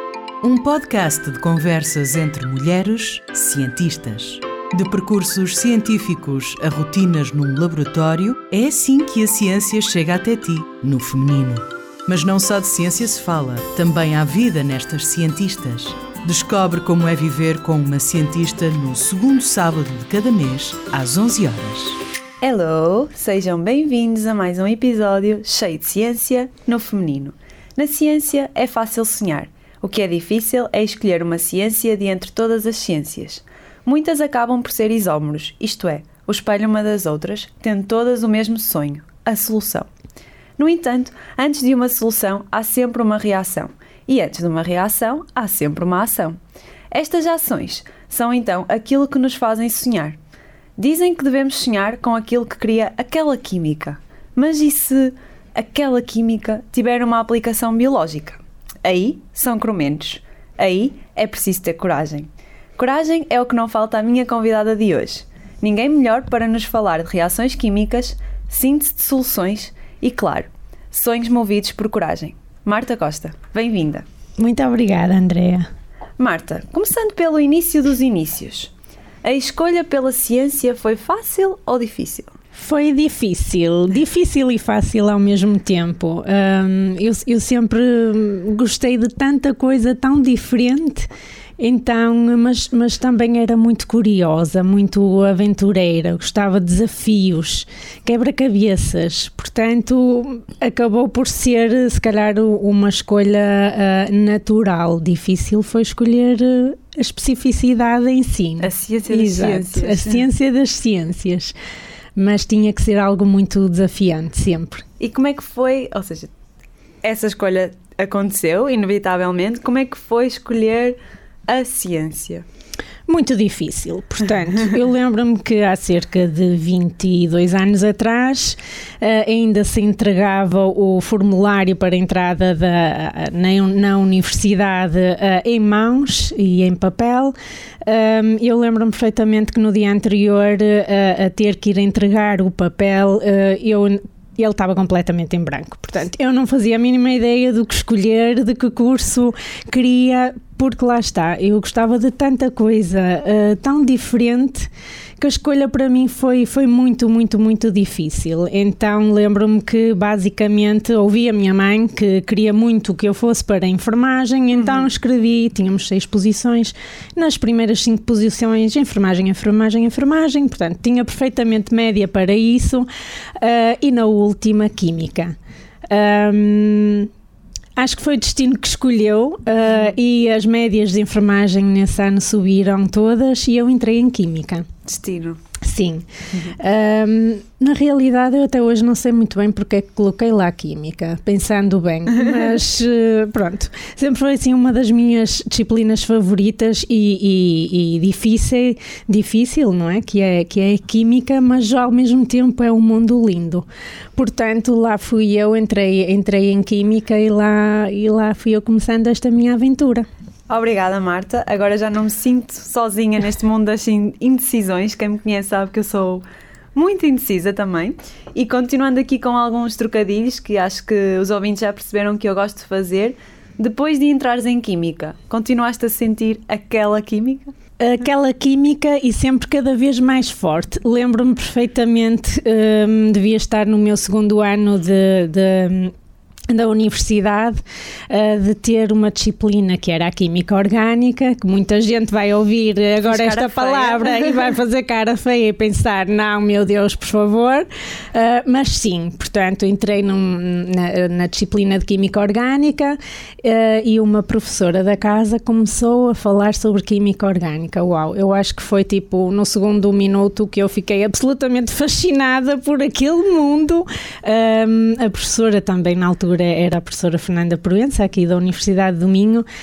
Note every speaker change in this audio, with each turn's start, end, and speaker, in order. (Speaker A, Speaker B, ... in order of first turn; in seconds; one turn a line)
Speaker A: 0.4-22.0
Speaker B: 22.4-39.9
Speaker B: 40.6-46.4
Speaker B: 46.9-50.2
Speaker B: 50.8-74.0
Speaker C: 74.4-75.7
Speaker B: 76.2-78.7
Speaker B: 79.2-82.3
Speaker C: 82.5-111.5
Speaker B: 108.6-110.2
Speaker C: 112.2-114.8
Speaker B: 115.0-116.3
Speaker B: 117.0-121.0
Speaker B: 121.5-122.4
Speaker C: 123.1-172.9
Speaker B: 164.6-164.8
Speaker C: 173.4-175.3
Speaker C: 175.9-177.1
Speaker C: 177.8-184.7
Speaker B: 184.8-185.4
Speaker C: 185.6-210.1
Speaker B: 210.5-227.5
Speaker C: 227.8-235.9
Speaker C: 236.5-269.4
Speaker B: 243.0-244.5